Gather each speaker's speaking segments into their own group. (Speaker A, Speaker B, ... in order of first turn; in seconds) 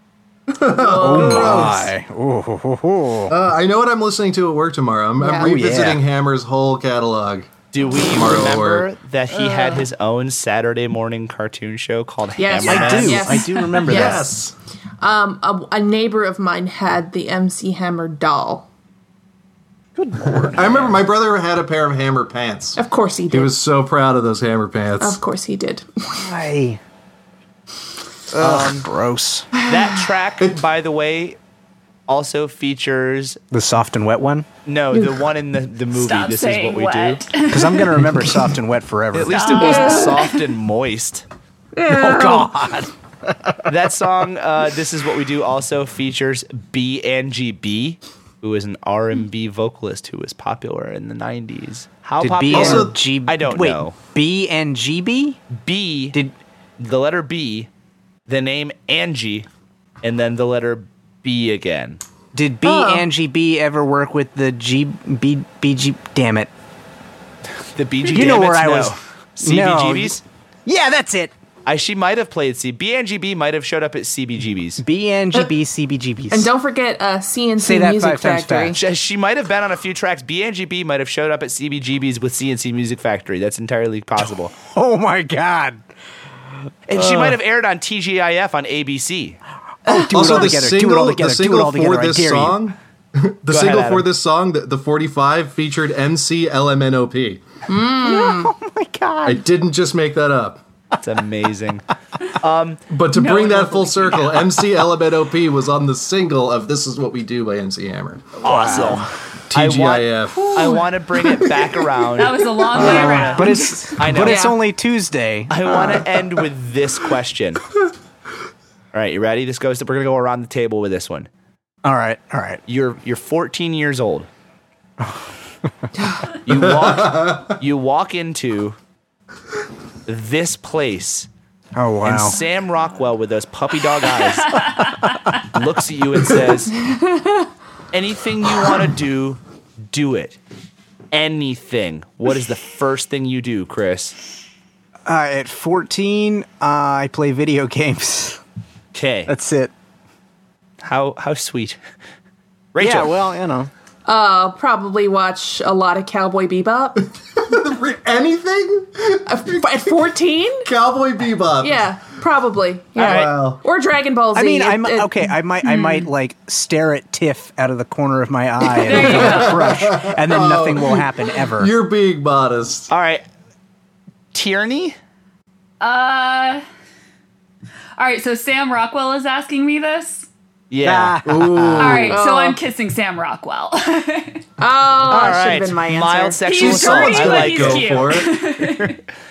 Speaker A: 0.5-1.9, 3.3-8.9, 12.7-13.2, 13.8-14.5, 20.5-25.2, 52.5-53.0, 90.1-97.4, 99.2-100.6, 102.9-108.4, 109.5-110.7, 126.5-127.5, 157.3-159.9, 160.6-161.9, 163.0-163.6, 168.9-172.9, 181.2-182.2, 186.5-188.4
Speaker B: 0.7-1.9, 5.2-5.5, 9.4-9.8, 12.4-14.3, 15.0-18.7, 22.8-23.6, 25.0-26.2, 34.9-35.2, 39.5-40.2, 41.8-42.5, 62.6-63.0, 76.3-78.8, 89.9-90.4, 97.7-98.5, 112.9-113.3, 114.2-114.6, 115.7-116.0, 136.8-137.5, 154.1-157.1, 159.3-160.7, 161.6-165.3, 182.1-182.6, 184.6-186.5
Speaker C: 1.0-3.3, 5.4-6.0, 12.6-14.3, 20.0-20.9, 26.1-26.8, 28.3-29.5, 33.5-34.5, 37.5-39.5, 41.9-43.6, 52.2-55.4, 62.3-66.5, 68.1-71.3, 74.8-76.5, 77.6-78.8, 84.6-85.8, 86.9-87.4, 89.8-92.6, 98.0-99.4, 108.4-109.1, 112.7-115.8, 121.8-122.6, 125.0-125.3, 131.8-132.4, 145.1-148.4, 149.3-149.7, 152.8-153.7, 164.3-171.7, 180.8-182.2
Speaker D: 7.7-13.4, 20.5-20.9, 28.4-28.9, 29.6-31.4, 32.1-33.4, 34.7-37.2, 39.1-41.2, 43.7-54.0, 55.6-56.2, 56.8-57.7, 58.3-59.5, 60.0-62.0, 67.8-70.2, 71.7-74.8, 78.7-84.5, 86.9-89.4, 93.5-94.1, 101.0-101.8, 102.3-102.8, 108.4-113.4, 114.0-114.5, 115.5-117.6, 118.9-121.3, 122.7-124.3, 126.5-128.8, 130.1-131.3, 132.0-134.6, 135.4-136.8, 137.9-140.4, 141.1-144.2, 148.9-149.3, 150.8-151.8, 152.7-153.1, 163.0-163.3, 172.9-173.2, 174.3-175.0, 180.7-181.7, 185.1-188.1, 188.6-189.0
Speaker E: 35.9-38.1, 39.3-40.3, 103.1-104.5, 112.2-113.8, 134.3-135.4, 165.8-166.1, 168.8-169.7, 175.8-176.6, 178.0-180.3, 181.8-184.4, 186.4-189.0